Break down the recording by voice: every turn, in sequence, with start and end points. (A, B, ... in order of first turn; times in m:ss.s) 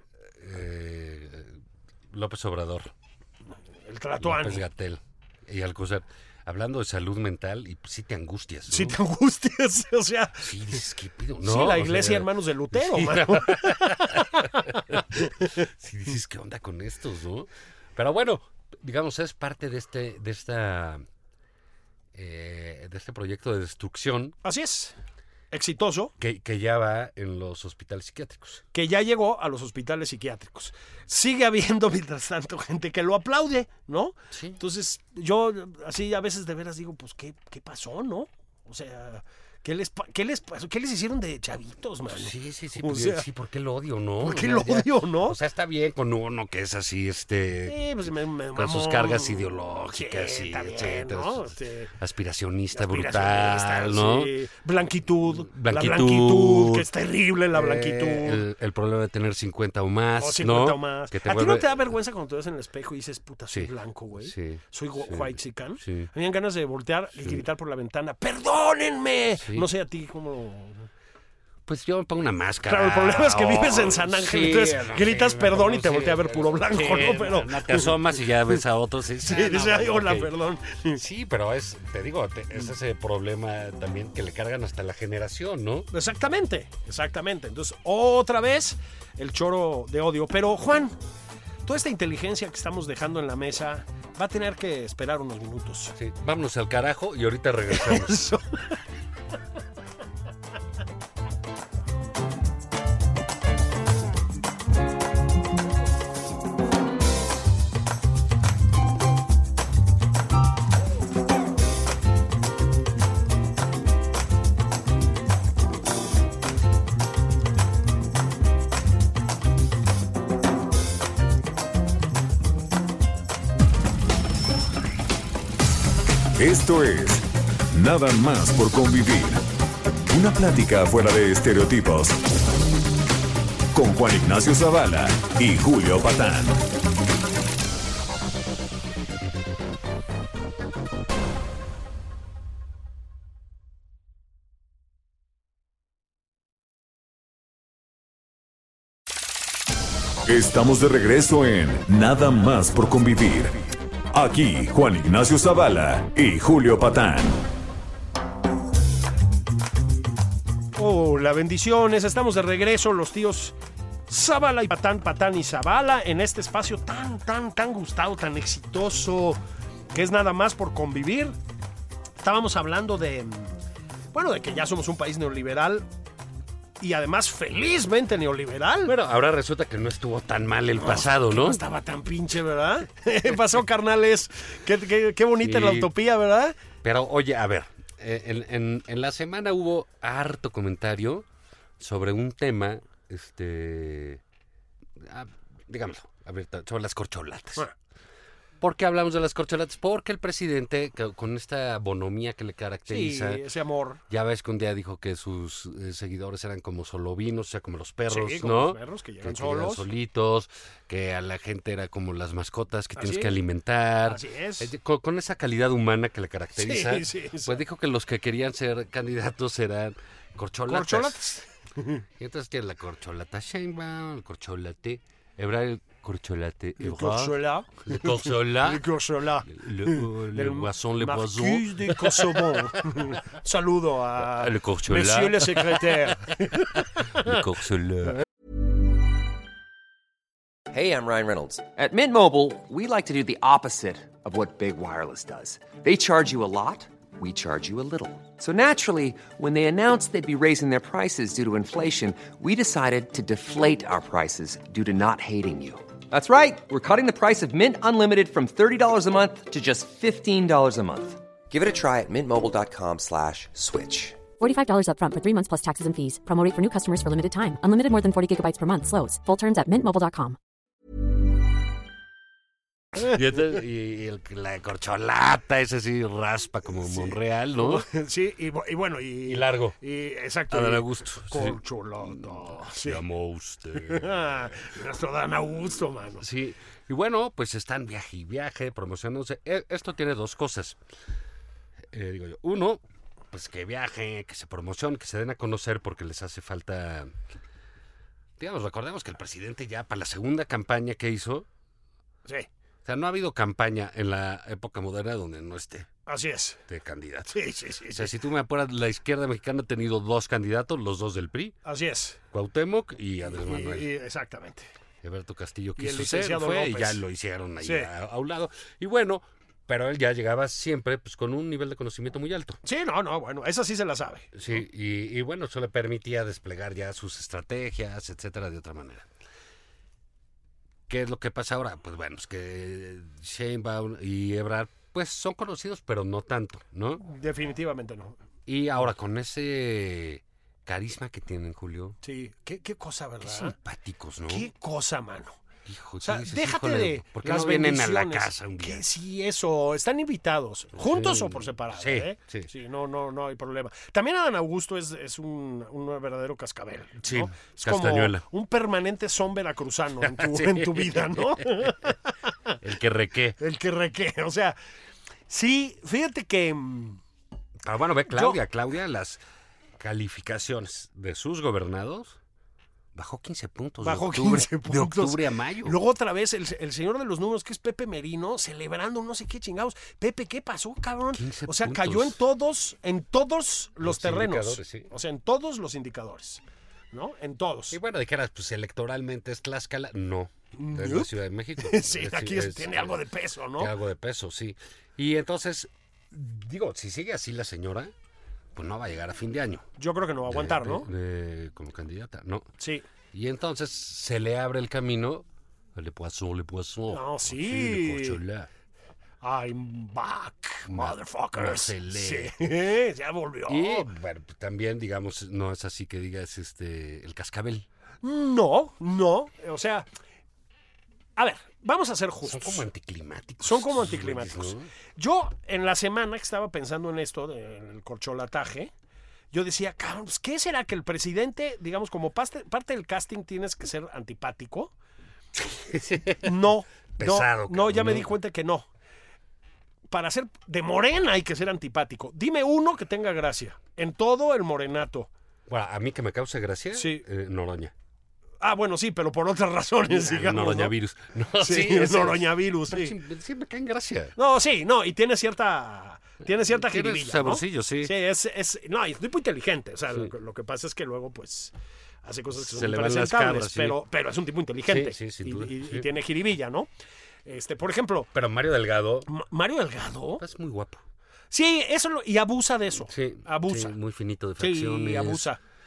0:00.4-0:02.9 A
0:03.8-0:04.6 B
0:04.2-0:09.0 A
0:08.7-0:10.5 B
0:10.4-0:21.0 A
0:11.4-0:15.6 B
0:22.1-0:24.4 A
0:24.4-0:25.0 B
0:25.5-0:26.1 B
0:26.2-0:28.6 A
0:28.7-0:43.2 B
0:34.3-0:34.6 A
0:42.1-0:54.3 A
0:44.2-0:45.4 B
0:47.6-0:51.9 B
0:52.7-0:58.4 B
0:55.2-0:56.9 A
0:57.5-1:01.9 A
1:00.2-1:10.9 B
1:03.5-1:06.1 A
1:07.2-1:07.4 A
1:09.4-1:09.7 A
1:11.6-1:20.3 A
1:12.6-1:18.0 B
1:19.2-1:21.0 B
1:20.9-1:25.9 A
1:25.9-1:31.0 B
1:31.6-1:35.9 B
1:36.0-1:38.3 A
1:37.7-1:38.6 B
2:06.4-2:09.5 C
2:10.1-2:12.2 C
2:13.7-2:16.6 C
2:30.2-2:37.4 C
2:40.8-2:43.5 B
2:44.1-2:49.4 B
2:49.9-2:51.3 B
2:52.2-2:53.6 B
2:54.1-2:55.8 B
2:56.8-2:58.9 B
2:58.8-3:01.6 A
3:00.8-3:06.6 B
3:05.4-3:05.9 A
3:06.8-3:11.3 A
3:11.8-3:14.2 A
3:15.0-3:17.7 A
3:18.6-3:23.4 A
3:22.8-3:24.0 B
3:24.1-3:41.2 A
3:28.1-3:29.8 B
3:33.0-3:33.4 B
3:34.0-3:34.7 B
3:36.6-3:37.6 B
3:40.7-3:42.0 B
3:42.2-3:48.9 A
3:46.8-3:57.4 B
3:49.4-3:52.6 A
3:54.2-3:56.1 A
3:57.0-3:58.2 A
4:00.7-4:24.2 D
4:24.4-4:30.4 E
4:32.9-4:37.8 A
4:36.8-4:43.0 B
4:39.2-4:39.8 A
4:40.5-4:44.4 A
4:43.7-4:46.2 B
4:46.2-4:50.8 A
4:51.9-4:57.1 A
4:58.4-5:01.5 A
5:02.8-5:05.9 A
5:06.1-5:06.6 B
5:06.7-5:07.4 A
5:07.3-5:08.1 B
5:07.9-5:11.6 A
5:11.6-5:12.2 B
5:12.3-5:13.9 A
5:13.3-5:14.7 B
5:15.0-5:22.6 A
5:15.8-5:17.0 B
5:17.6-5:17.9 B
5:22.6-5:24.6 B
5:24.3-5:29.1 A
5:30.9-5:37.0 A
5:37.0-5:38.2 B
5:38.4-5:42.0 A
5:42.0-5:43.6 B
5:43.2-5:44.5 A
5:44.3-5:45.4 B
5:45.6-5:48.8 A
5:46.0-6:02.6 B
5:50.7-5:52.5 A
5:57.0-5:58.2 A
6:00.0-6:01.9 A
6:02.6-6:03.4 A
6:03.4-6:04.6 B
6:05.3-6:07.0 B
6:07.6-6:09.2 A
6:08.1-6:08.4 B
6:09.8-6:12.2 A
6:12.9-6:15.8 A
6:13.8-6:27.8 B
6:21.1-6:22.2 A
6:23.8-6:24.9 A
6:27.7-6:33.0 A
6:30.5-6:33.7 B
6:33.6-6:37.9 A
6:38.5-6:39.6 A
6:39.8-6:40.9 B
6:40.3-6:42.5 A
6:42.6-6:42.8 B
6:43.1-6:48.5 A
6:46.9-6:48.2 B
6:49.2-6:53.9 B
6:50.7-6:52.5 A
6:53.5-6:57.7 A
6:58.0-6:59.9 B
7:01.2-7:02.7 B
7:02.2-7:04.7 A
7:03.4-7:08.7 B
7:09.3-7:14.7 B
7:15.3-7:16.4 A
7:16.2-7:18.7 B
7:17.0-7:18.1 A
7:19.9-7:25.1 B
7:25.5-7:27.7 A
7:26.7-7:27.0 B
7:28.4-7:30.7 B
7:29.9-7:34.1 A
7:31.4-7:32.9 B
7:34.2-7:41.5 B
7:36.3-7:37.9 A
7:42.0-7:46.7 B
7:42.4-7:43.8 A
7:44.6-7:45.9 A
7:47.2-7:48.1 B
7:48.1-7:49.1 A
7:49.1-7:50.2 B
7:50.2-7:50.8 A
7:51.3-7:53.7 B
7:52.9-7:55.3 A
7:54.4-7:55.4 B